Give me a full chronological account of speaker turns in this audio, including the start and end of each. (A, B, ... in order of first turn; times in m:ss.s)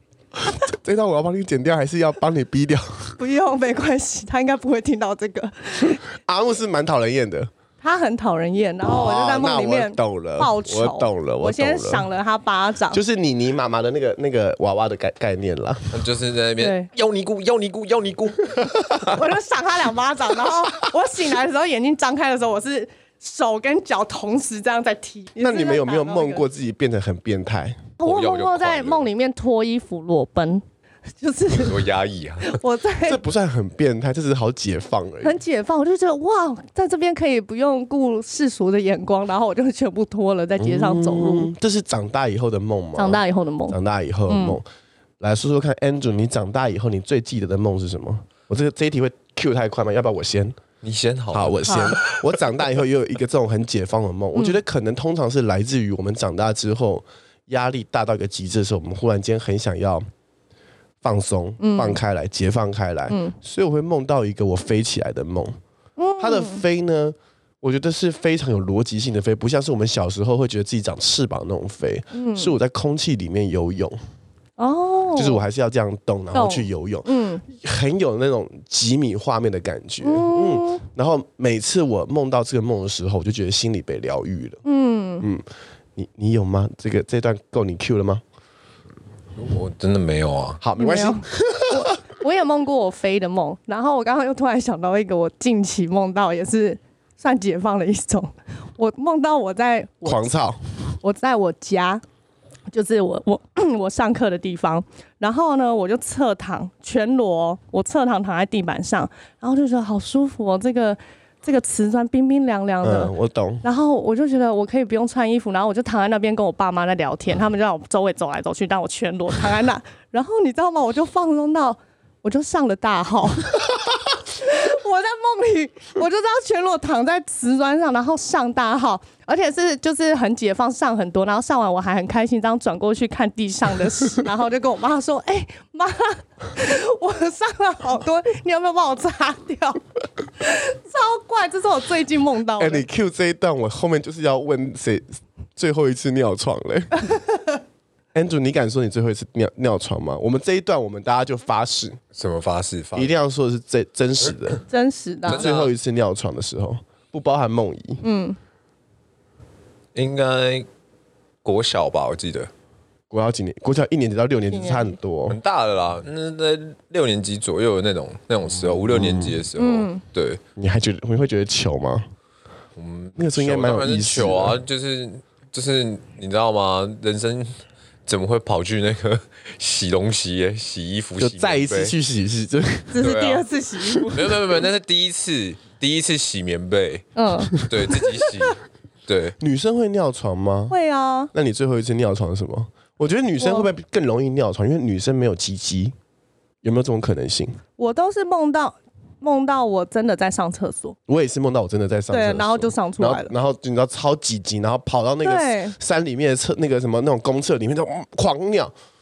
0:00.4-0:03.2 A
0:03.2-0:06.0 B
0:06.2-0:07.5 A
0:07.8-0:13.0 B
0:08.8-0:12.1 A
0:12.9-0:16.1 A
0:15.9-0:19.1 C
0:16.6-0:16.9 B
0:19.0-0:26.4 B
0:25.4-0:27.9 A
0:28.0-0:30.6 B
0:28.0-0:29.1 C
0:31.2-0:31.8 B
0:31.6-0:32.6 C
0:32.4-0:33.2 B
0:33.0-0:35.4 A
0:35.2-0:41.5 B
0:40.6-0:44.6 A
0:43.0-0:44.6 B
0:45.2-0:50.6 A
0:50.8-0:52.2 C
0:51.3-1:00.0 A
0:51.6-0:52.0 B
1:01.0-1:05.6 A
1:01.6-1:02.0 B
1:03.1-1:03.4 B
1:06.0-1:06.6 B
1:06.2-1:14.0 A
1:12.1-1:12.6 B
1:14.6-1:15.4 B
1:15.2-1:24.6 A
1:16.3-1:17.4 B
1:20.0-1:20.8 B
1:24.6-1:25.3 B
1:26.0-1:28.2 A
1:29.4-1:30.6 C
1:30.6-1:31.9 A
1:30.8-1:40.3 B
1:40.0-1:40.6 A
1:41.0-1:42.0 B
1:42.7-2:03.7 B
1:52.8-1:53.6 A
2:04.3-2:19.8 B
2:20.4-2:22.8 B
2:22.6-2:27.0 A
2:28.1-2:32.0 A
2:32.1-2:33.1 C
2:32.9-2:34.6 A
2:34.7-2:35.4 B
2:35.3-2:38.0 A
2:35.3-2:35.7 C
2:38.0-2:38.4 B
2:39.9-2:40.7 C
2:41.4-2:42.5 C
2:43.1-2:45.4 A
2:44.5-2:45.0 B
2:45.3-2:50.4 C
2:48.6-2:49.4 A
2:49.6-2:50.0 B
2:50.6-2:52.0 A
2:52.8-2:57.5 C
2:53.2-2:54.6 A
2:58.0-3:01.9 C
3:01.2-3:03.0 A
3:02.9-3:04.3 B
3:03.0-3:03.4 C
3:03.8-3:04.1 A
3:04.1-3:09.4 C
3:07.2-3:07.6 B
3:09.4-3:10.7 A
3:10.7-3:11.3 B
3:11.3-3:15.9 A
3:13.4-3:13.7 B
3:16.6-3:17.6 A
3:17.8-3:21.0 B
3:21.1-3:28.7 A
3:22.1-3:23.3 B
3:25.2-3:25.8 B